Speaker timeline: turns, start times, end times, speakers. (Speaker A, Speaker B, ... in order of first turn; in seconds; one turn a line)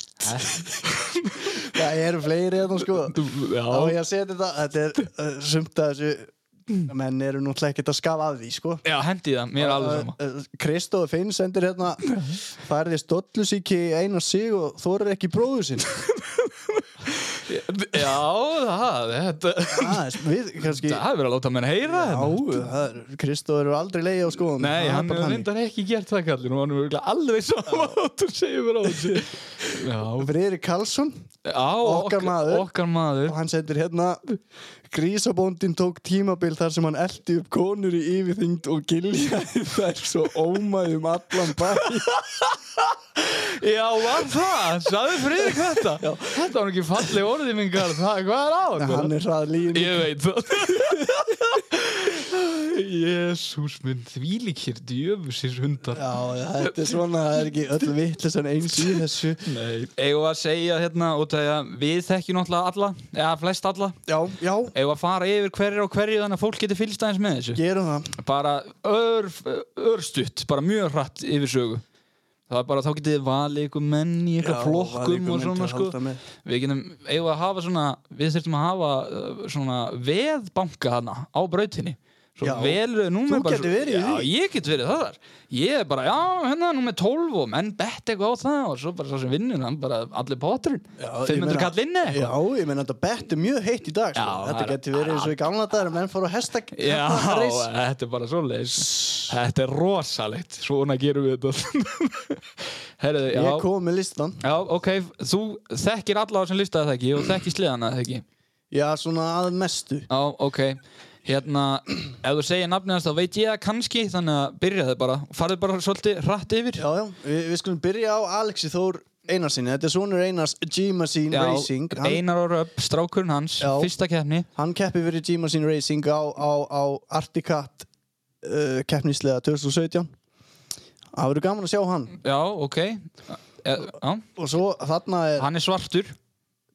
Speaker A: 0.2-1.7
Speaker B: 1.7-3.2
Speaker A: 3.1-4.0
Speaker B: 3.7-6.3
Speaker B: 6.8-8.8
Speaker A: 8.8-10.2
Speaker B: 9.6-15.9
Speaker A: 12.1-12.4
Speaker A: 16.2-20.1
Speaker B: 19.7-21.0
Speaker A: 20.7-22.6
Speaker B: 21.9-25.5
Speaker A: 24.6-30.3
Speaker B: 27.7-28.0
Speaker B: 28.9-29.2
Speaker B: 30.2-31.3
Speaker A: 31.4-33.4
Speaker B: 31.8-32.7
Speaker B: 33.3-34.2
Speaker B: 34.9-42.1
Speaker A: 41.8-49.1
Speaker B: 45.4-46.3
Speaker B: 48.8-50.1
Speaker A: 49.7-57.0
Speaker B: 50.8-51.0
Speaker B: 55.9-59.5
Speaker A: 59.5-64.0
Speaker B: 64.1-64.8
Speaker A: 64.7-67.6
Speaker B: 67.6-68.2
Speaker A: 68.2-71.8
Speaker A: 72.5-92.3
Speaker B: 74.4-76.2
Speaker B: 82.4-84.3
Speaker B: 91.0-97.7
Speaker A: 94.2-95.3
Speaker A: 96.7-103.7
Speaker B: 99.0-99.2
Speaker B: 103.3-104.4
Speaker A: 104.4-108.2
Speaker B: 108.7-110.1
Speaker A: 110.1-116.8
Speaker B: 116.8-122.2
Speaker A: 121.3-124.5
Speaker B: 123.6-123.9
Speaker B: 124.6-127.9
Speaker B: 128.4-130.1
Speaker B: 131.1-132.2
Speaker A: 132.2-134.2
Speaker B: 134.4-135.5
Speaker A: 135.4-136.2